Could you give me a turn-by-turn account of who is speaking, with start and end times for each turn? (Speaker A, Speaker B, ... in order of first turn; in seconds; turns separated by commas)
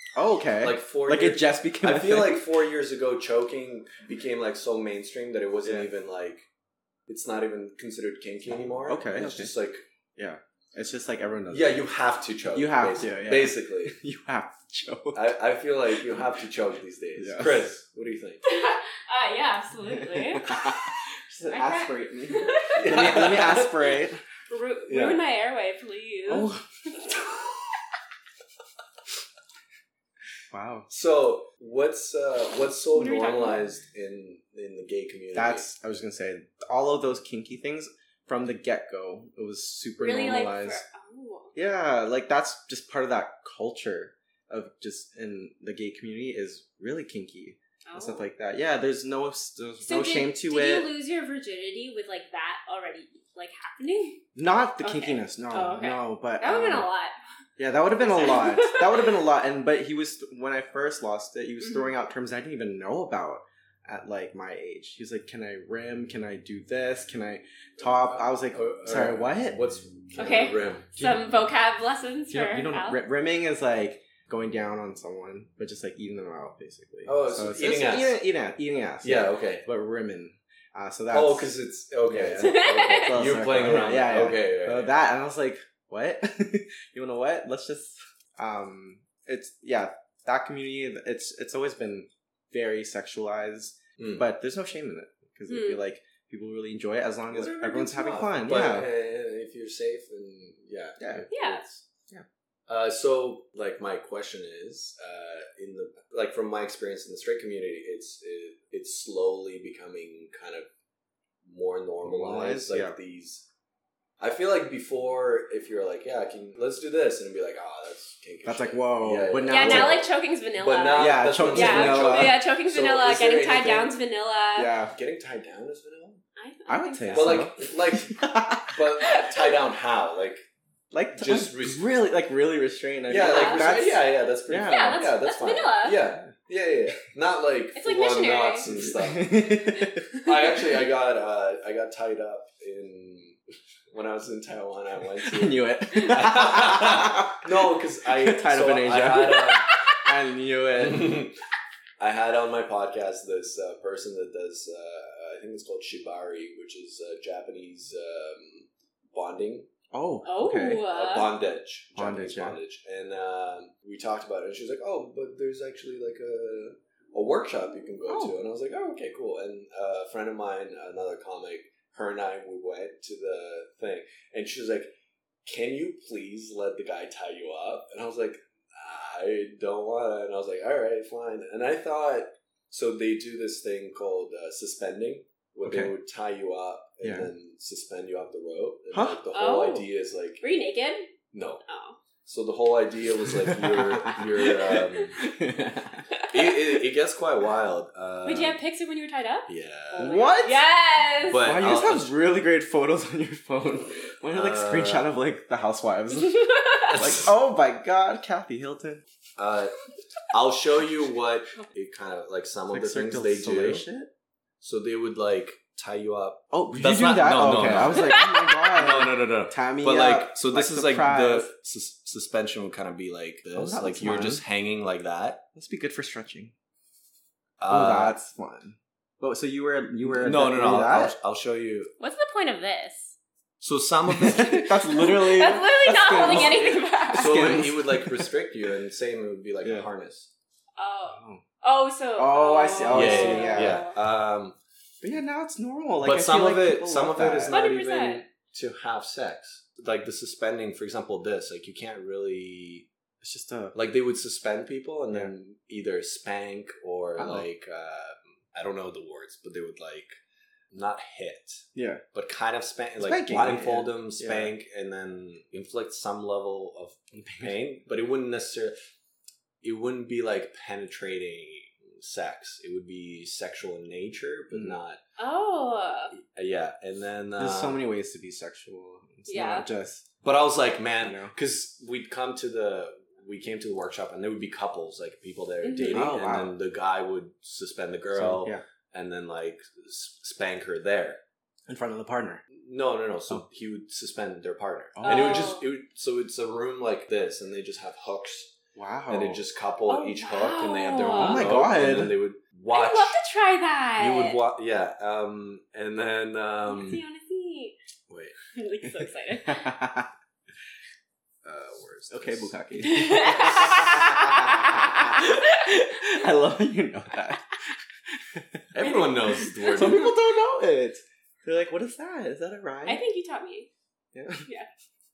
Speaker A: 0.1-2.4, Speaker B: 0.6-6.4, Speaker B: 7.1-9.8, Speaker A: 8.8-9.5, Speaker A: 10.2-11.8, Speaker B: 11.5-14.0, Speaker A: 12.5-15.3, Speaker B: 15.1-18.4, Speaker A: 17.2-17.6, Speaker C: 18.4-20.9, Speaker A: 20.0-24.2, Speaker C: 21.5-22.8, Speaker B: 22.8-23.9, Speaker C: 24.5-26.5, Speaker B: 24.9-25.2, Speaker A: 26.3-27.1, Speaker A: 30.5-30.9, Speaker B: 30.9-35.7, Speaker C: 32.9-33.7, Speaker A: 35.3-40.8, Speaker C: 40.0-41.5, Speaker A: 41.5-50.9, Speaker C: 47.9-48.2, Speaker C: 49.8-54.3, Speaker A: 54.4-56.9, Speaker C: 54.8-57.1, Speaker A: 57.6-69.6, Speaker C: 58.0-59.0, Speaker C: 61.6-61.9, Speaker B: 67.8-70.9, Speaker C: 70.2-73.0, Speaker A: 71.0-71.2, Speaker A: 72.3-81.5, Speaker B: 77.1-78.2, Speaker B: 79.0-79.6, Speaker B: 81.1-84.9, Speaker A: 82.1-98.9, Speaker C: 82.4-83.2, Speaker B: 94.0-94.3, Speaker C: 95.5-95.8, Speaker B: 97.3-101.8, Speaker A: 101.0-101.3, Speaker C: 101.3-101.6, Speaker B: 102.7-110.7, Speaker B: 111.4-113.5, Speaker A: 112.0-113.0, Speaker B: 114.2-123.9, Speaker A: 118.4-120.0, Speaker C: 119.5-124.7, Speaker A: 120.9-122.4, Speaker A: 124.5-124.9, Speaker B: 124.9-126.2, Speaker C: 126.4-127.4, Speaker A: 126.7-129.3, Speaker B: 127.1-128.1, Speaker B: 128.7-130.5, Speaker A: 130.9-135.1, Speaker B: 131.2-131.8, Speaker B: 133.1-139.3, Speaker C: 133.1-133.7, Speaker C: 134.6-136.0, Speaker C: 137.8-138.7, Speaker A: 138.6-140.1, Speaker B: 140.2-143.4, Speaker B: 143.9-149.8, Speaker A: 145.2-151.3, Speaker C: 149.6-150.0, Speaker B: 150.8-151.4, Speaker B: 152.0-159.7, Speaker A: 159.9-160.8, Speaker C: 160.2-161.3, Speaker B: 160.9-174.9, Speaker A: 161.9-162.6, Speaker A: 168.1-168.4, Speaker B: 175.5-190.4, Speaker A: 185.6-185.9, Speaker A: 187.0-187.3, Speaker A: 188.9-189.2, Speaker C: 189.3-189.9, Speaker C: 190.4-191.1, Speaker B: 191.3-191.6, Speaker C: 191.6-192.0, Speaker B: 192.2-195.2, Speaker A: 193.5-196.1, Speaker C: 194.7-195.0, Speaker B: 196.3-198.6, Speaker C: 198.2-201.6, Speaker B: 199.5-200.3, Speaker A: 199.9-200.6, Speaker B: 201.3-202.1, Speaker A: 201.4-209.0, Speaker B: 204.3-205.1, Speaker C: 206.1-207.1, Speaker B: 206.9-207.3, Speaker B: 209.4-209.7, Speaker B: 210.3-213.9, Speaker A: 212.7-214.1, Speaker B: 214.6-225.4, Speaker A: 216.5-221.5, Speaker C: 217.9-218.7, Speaker A: 223.5-224.4, Speaker A: 225.6-226.5, Speaker B: 227.6-228.2, Speaker A: 227.7-231.1, Speaker B: 230.1-231.9, Speaker C: 232.0-233.2, Speaker B: 233.6-235.1, Speaker A: 234.1-238.3, Speaker C: 234.9-237.5, Speaker B: 236.1-240.3, Speaker A: 239.6-239.9, Speaker C: 240.8-243.9, Speaker A: 241.1-241.4, Speaker A: 242.2-243.9, Speaker B: 242.9-244.6, Speaker A: 245.0-247.6, Speaker B: 246.0-252.9, Speaker C: 247.5-248.2, Speaker A: 253.2-253.8, Speaker B: 253.7-260.2, Speaker A: 257.2-257.5, Speaker B: 260.7-268.8, Speaker A: 261.8-262.0, Speaker A: 263.0-264.5, Speaker A: 267.1-267.6, Speaker B: 269.6-275.0, Speaker A: 274.5-274.8, Speaker C: 275.2-276.1, Speaker B: 276.1-277.8, Speaker A: 277.4-280.1, Speaker C: 279.3-279.6, Speaker B: 280.2-291.2, Speaker A: 281.0-281.3, Speaker C: 285.6-286.1, Speaker A: 285.9-286.6, Speaker A: 288.1-288.6, Speaker A: 291.7-292.4, Speaker B: 292.5-298.5, Speaker A: 294.9-295.5, Speaker C: 295.0-295.6, Speaker A: 298.8-299.4, Speaker B: 299.1-303.2, Speaker C: 299.9-301.5, Speaker A: 301.2-302.1, Speaker C: 302.7-304.4, Speaker B: 304.0-307.0, Speaker C: 306.7-307.8, Speaker B: 308.1-308.4, Speaker C: 308.5-309.7, Speaker A: 309.4-310.1, Speaker B: 311.4-312.5, Speaker A: 312.1-323.0, Speaker C: 312.8-316.2, Speaker B: 313.4-314.1, Speaker B: 318.7-320.1, Speaker C: 319.5-320.1, Speaker C: 322.9-323.7, Speaker A: 324.1-324.5